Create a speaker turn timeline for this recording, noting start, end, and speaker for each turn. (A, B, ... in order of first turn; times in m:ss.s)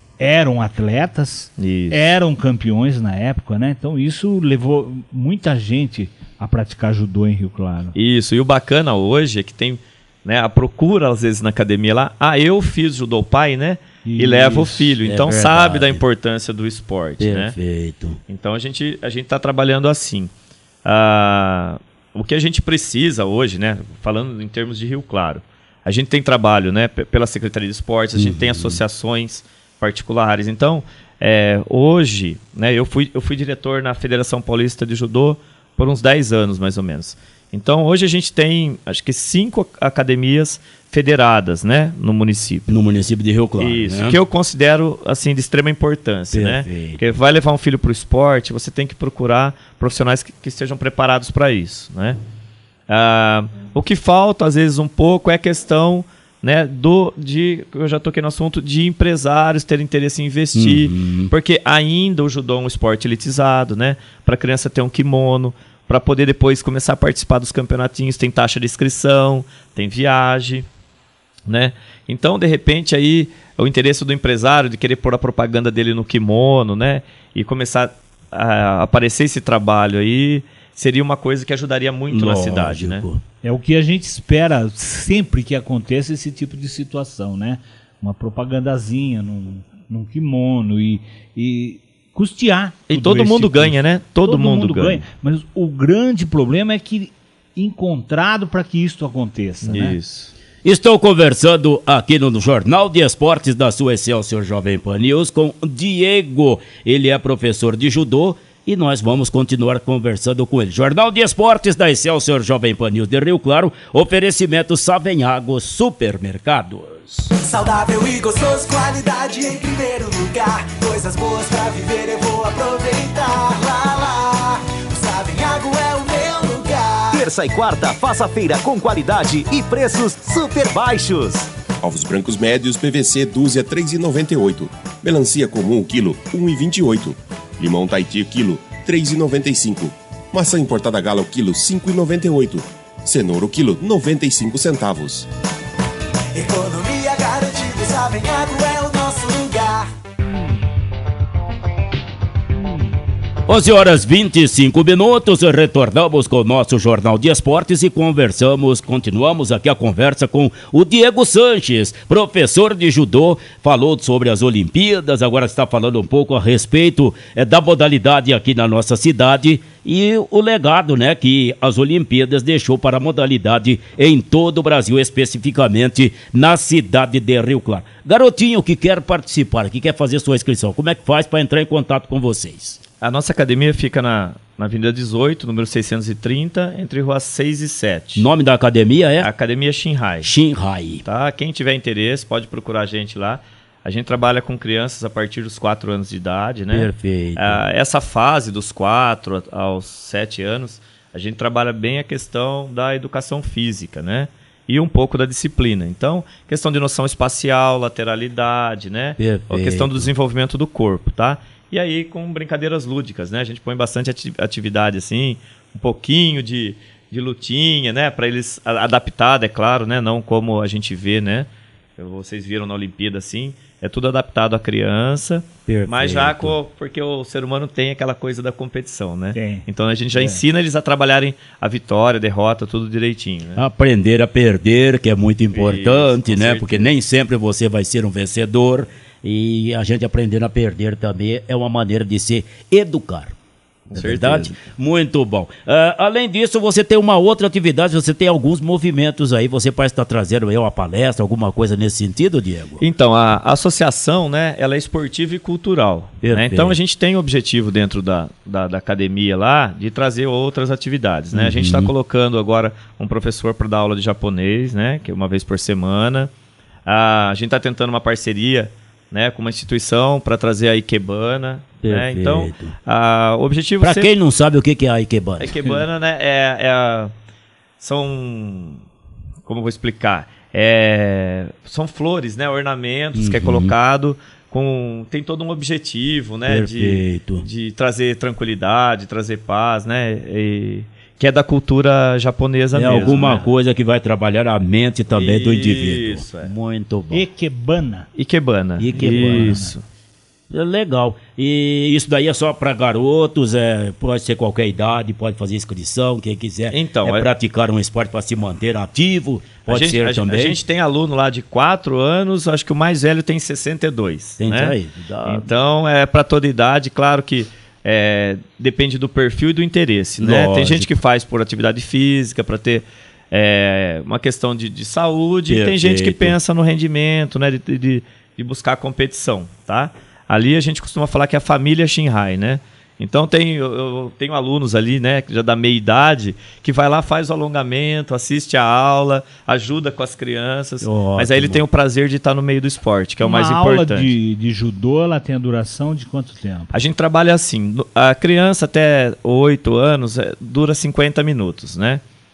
0:00.2-0:07.9 A
0:01.6-0:02.2 B
0:08.0-0:17.6 B
0:14.0-0:15.0 A
0:15.0-0:16.0 C
0:17.2-0:18.2 C
0:18.3-0:20.3 B
0:20.8-0:42.8 B
0:28.2-0:28.8 C
0:42.7-0:44.2 C
0:43.6-0:52.2 B
0:46.3-0:47.0 C
0:52.9-1:10.6 B
1:00.6-1:01.3 C
1:11.5-1:23.0 B
1:22.1-1:23.2 C
1:23.4-1:40.0 A
1:32.9-1:35.0 B
1:39.6-1:40.3 B
1:40.6-1:57.3 C
1:57.4-2:07.2 D
2:07.1-2:11.5 E
2:11.8-2:25.3 F
2:26.3-2:29.9 D
2:33.5-3:02.8 C
3:03.0-3:08.3 B
3:08.2-3:09.3 C
3:09.2-3:10.3 B
3:10.2-3:11.0 C
3:11.0-3:41.5 B
3:16.7-3:17.6 C
3:29.2-3:30.1 C
3:42.0-3:53.6 B
3:45.6-3:46.6 C
3:49.3-3:50.4 A
3:53.6-4:03.4 C
3:55.5-3:56.9 B
4:03.9-4:04.6 B
4:03.9-4:12.8 C
4:12.8-4:26.3 B
4:16.2-4:16.8 C
4:21.3-4:21.9 C
4:26.9-4:34.1 B
4:31.8-4:32.8 C
4:33.8-4:35.8 C
4:35.4-4:37.1 B
4:37.8-4:38.8 B
4:39.5-4:53.5 B
4:43.1-4:43.7 C
4:46.5-4:47.4 C
4:52.7-4:57.2 C
4:55.1-4:56.5 B
4:57.1-4:58.1 A
4:58.1-4:59.8 B
4:58.8-4:59.6 C
4:58.9-4:59.8 A
5:00.5-5:10.6 C
5:06.7-5:07.3 B
5:09.6-5:44.1 B
5:14.4-5:15.5 C
5:20.2-5:21.0 C
5:25.5-5:26.4 C
5:40.8-5:41.6 C
5:43.2-5:46.8 A
5:46.7-5:52.0 B